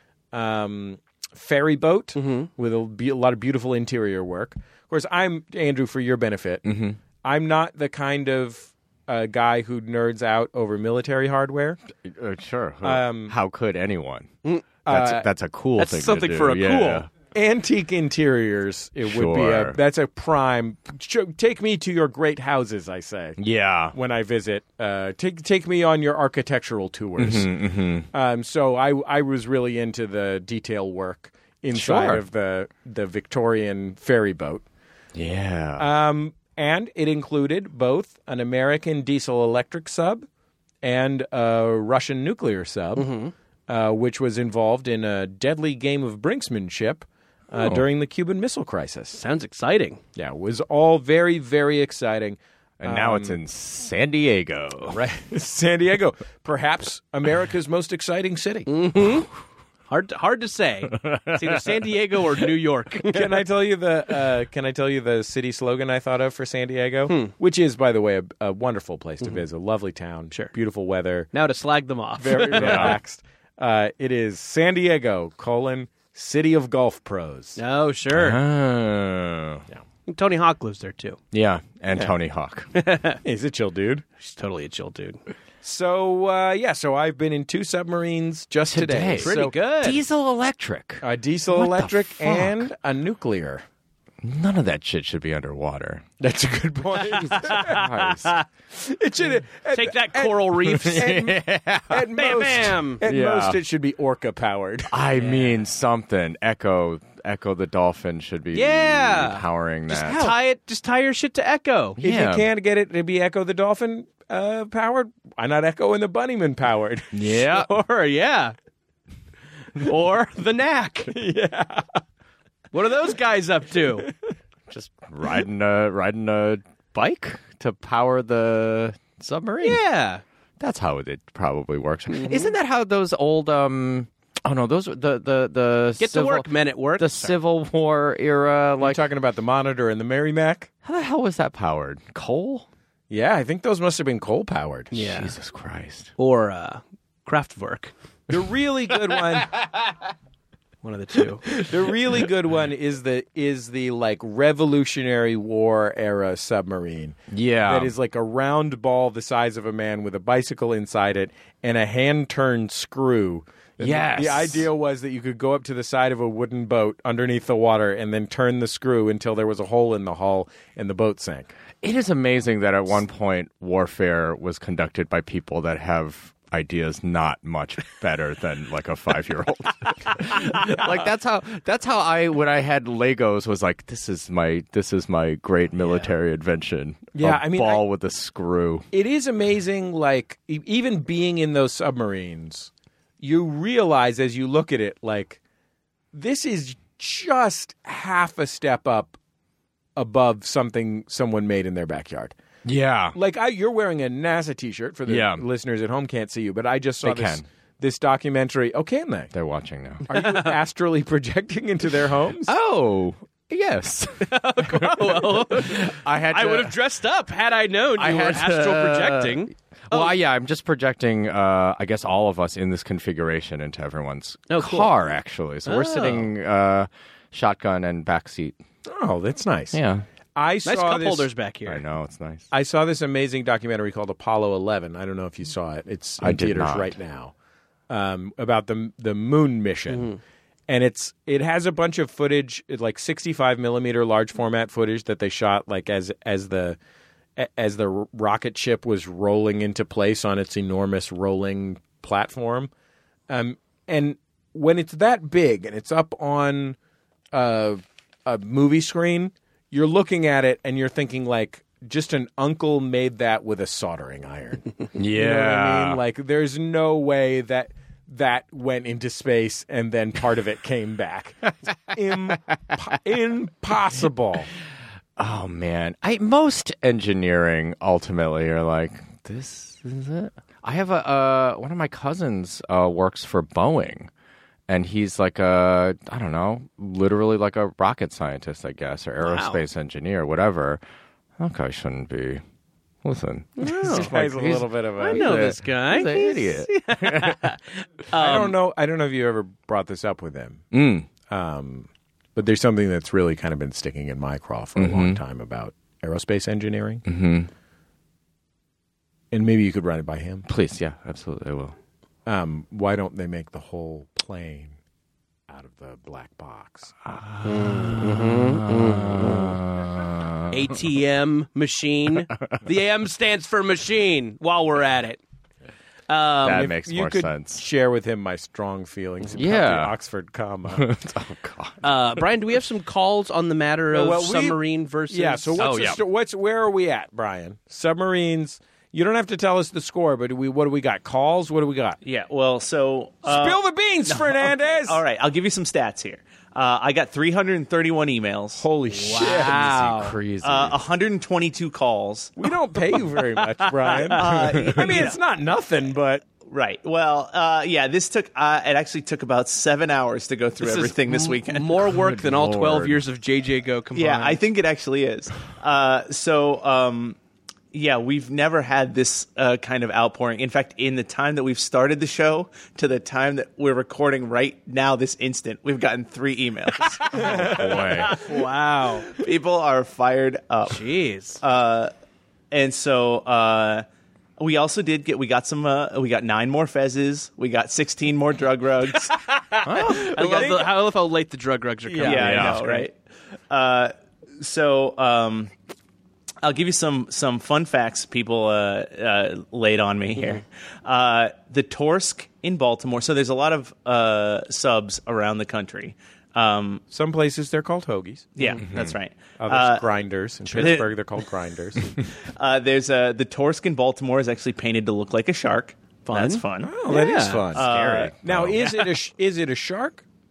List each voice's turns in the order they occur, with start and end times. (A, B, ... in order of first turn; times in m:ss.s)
0:00.3-0:06.6 A
0:02.2-0:02.5 B
0:06.6-0:07.0 C
0:07.2-0:11.8 A
0:12.0-0:17.1 C
0:12.8-0:13.3 A
0:14.8-0:15.3 A
0:15.8-0:17.1 B
0:17.3-0:23.4 A
0:19.0-0:19.8 C
0:23.4-0:24.0 C
0:23.9-0:27.5 A
0:27.2-0:28.1 C
0:28.1-0:34.6 A
0:31.7-0:32.2 C
0:35.1-0:35.9 C
0:35.8-0:40.2 A
0:40.8-0:43.2 A
0:43.0-0:43.3 B
0:43.7-0:49.2 A
0:47.5-0:47.8 C
0:49.1-0:50.0 B
0:50.2-0:53.4 A
0:52.8-0:55.0 C
0:54.9-0:58.7 A
0:58.7-0:59.3 B
0:59.9-1:03.3 B
1:00.9-1:01.8 C
1:03.0-1:11.3 A
1:11.3-1:13.0 B
1:12.2-1:17.6 A
1:12.5-1:13.0 C
1:17.6-1:18.4 B
1:18.1-1:19.6 C
1:20.1-1:21.2 B
1:21.3-1:22.7 C
1:22.8-1:23.2 B
1:23.2-1:24.0 A
1:24.2-1:25.2 B
1:25.6-1:29.6 A
1:28.7-1:32.7 C
1:29.2-1:30.0 B
1:31.0-1:33.6 A
1:34.2-1:36.1 C
1:36.2-1:37.8 A
1:37.1-1:38.3 C
1:37.2-1:38.4 B
1:38.7-1:41.3 A
1:39.7-1:41.2 B
1:40.6-1:42.3 C
1:41.9-1:45.0 A
1:42.1-1:43.0 B
1:43.0-1:43.6 C
1:44.9-1:50.4 C
1:45.2-1:45.5 B
1:48.5-1:52.0 B
1:52.0-1:52.5 C
1:52.0-1:57.1 A
1:57.1-1:57.7 C
1:57.5-1:58.5 B
1:59.8-2:01.1 B
2:01.1-2:02.0 A
2:02.7-2:04.1 B
2:04.7-2:09.8 C
2:09.6-2:10.2 B
2:10.6-2:19.1 C
2:12.1-2:12.5 B
2:16.0-2:17.4 B
2:18.8-2:20.7 A
2:20.8-2:22.6 C
2:23.1-2:24.9 A
2:24.9-2:25.3 B
2:24.9-2:26.1 C
2:26.2-2:27.9 B
2:28.3-2:29.6 A
2:30.8-2:31.5 B
2:31.6-2:51.5 A
2:37.3-2:37.9 C
2:43.8-2:44.7 C
2:51.8-3:08.9 C
3:05.8-3:06.1 B
3:07.1-3:07.8 A
3:08.9-3:15.4 A
3:16.1-3:19.2 A
3:20.0-3:22.3 A
3:22.6-3:23.2 C
3:23.1-3:29.3 A
3:25.0-3:25.4 C
3:27.0-3:27.4 C
3:29.3-3:30.1 C
3:30.1-3:32.5 A
3:30.1-3:30.6 B
3:32.4-3:36.8 C
3:34.3-3:40.1 B
3:37.9-3:48.6 C
3:44.5-3:44.9 B
3:45.6-3:46.3 B
3:48.8-3:49.8 A
3:49.7-3:50.0 C
3:50.4-3:51.3 A
3:50.6-3:51.8 B
3:51.6-3:52.5 C
3:52.5-3:57.3 A
3:56.2-3:57.0 C
3:57.9-4:00.1 A
3:59.9-4:00.2 B
4:00.7-4:06.8 A
4:07.4-4:12.7 A
4:13.3-4:16.8 A
4:17.3-4:34.5 A
4:24.9-4:26.0 C
4:35.2-4:44.1 C
4:44.7-4:50.8 C
4:49.2-4:49.6 B
4:51.4-4:52.4 C
4:53.0-4:57.4 C
4:53.6-4:54.1 B
4:53.8-4:55.5 A
4:55.0-4:58.6 B
4:58.1-5:00.7 A
5:00.7-5:01.1 C
5:01.3-5:07.0 A
5:04.8-5:05.2 C
5:07.0-5:07.5 C
5:09.3-5:10.4 A
5:10.4-5:11.7 C
5:12.2-5:14.7 A
5:15.5-5:16.9 A
5:17.0-5:20.7 C
5:17.4-5:19.5 B
5:20.5-5:25.2 B
5:26.1-5:26.7 B
5:26.4-5:27.6 C
5:26.6-5:30.9 A
5:29.3-5:29.9 C
5:30.7-5:32.2 C
5:31.8-5:35.9 B
5:33.9-5:42.0 A
5:35.6-5:36.0 C
5:42.0-5:48.6 D
5:43.2-5:45.0 A
5:48.6-5:49.8 A
5:48.9-5:50.2 B
5:49.2-5:50.8 C
5:50.4-5:52.4 D
5:52.4-5:56.2 A
5:52.9-5:54.2 B
5:54.1-5:55.2 D
5:56.4-6:01.8 D
6:00.6-6:04.4 B
6:01.8-6:03.0 C
6:03.9-6:07.2 D
6:07.7-6:18.1 D
6:17.1-6:18.1 C
6:17.2-6:19.1 B
6:19.2-6:20.8 D
6:20.7-6:21.4 B
6:21.4-6:21.9 D
6:22.5-6:23.8 D
6:24.4-6:29.1 D
6:29.1-6:32.8 B
6:29.7-6:30.4 C
6:30.1-6:30.7 A
6:31.8-6:32.6 A
6:32.0-6:32.9 D
6:32.1-6:32.6 C
6:33.5-6:35.5 D
6:36.4-6:46.8 D
6:46.9-6:48.3 A
6:48.4-6:49.9 D
6:48.6-6:48.9 C
6:49.4-6:52.0 A
6:50.5-6:50.8 B
6:50.5-6:50.9 D
6:52.3-6:56.8 D
6:56.0-6:57.5 B
6:56.6-6:57.7 A
6:57.5-6:58.1 D
6:57.5-6:58.6 C
6:58.2-7:00.0 A
6:58.6-6:58.8 B